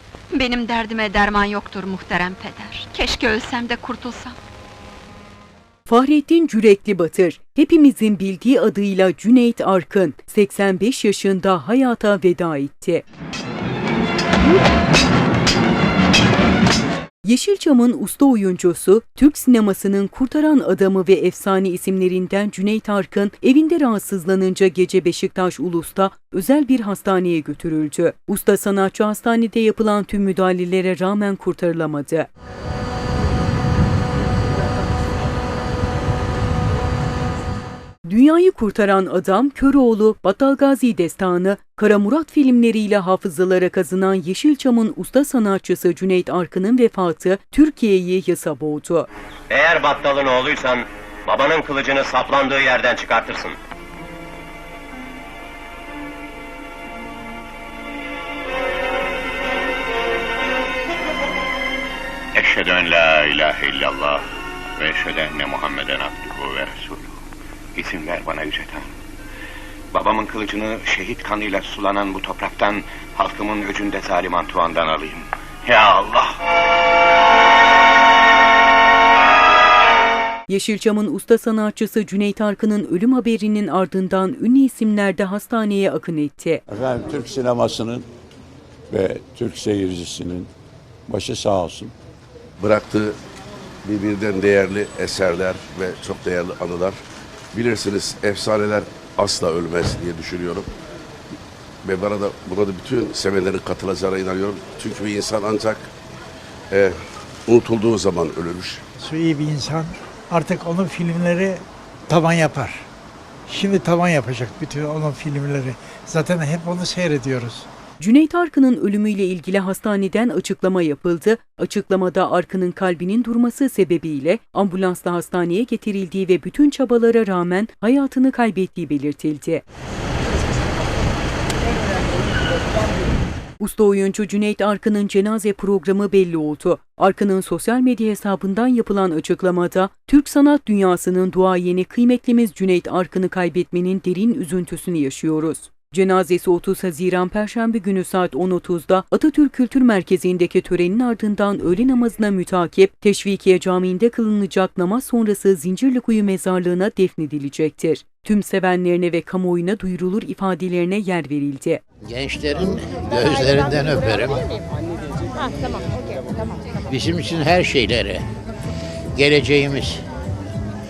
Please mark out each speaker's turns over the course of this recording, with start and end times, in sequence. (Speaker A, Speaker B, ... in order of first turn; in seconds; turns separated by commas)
Speaker A: 0.3-4.4, Speaker B: 5.9-13.0, Speaker B: 17.2-32.3, Speaker B: 38.0-49.1, Speaker C: 49.5-53.6, Speaker D: 62.3-64.2, Speaker D: 64.8-67.2, Speaker D: 67.8-68.9, Speaker D: 69.9-76.3, Speaker B: 80.5-86.6, Speaker E: 86.7-88.1, Speaker E: 88.9-90.5, Speaker E: 91.1-91.9, Speaker F: 92.6-93.1, Speaker F: 93.8-97.0, Speaker F: 97.5-100.7, Speaker F: 101.8-105.9, Speaker F: 106.7-107.0, Speaker F: 107.5-108.8, Speaker G: 109.0-112.9, Speaker G: 113.5-117.7, Speaker B: 118.0-129.6, Speaker B: 133.6-161.8, Speaker H: 162.0-164.5, Speaker H: 166.9-168.2, Speaker H: 169.1-170.1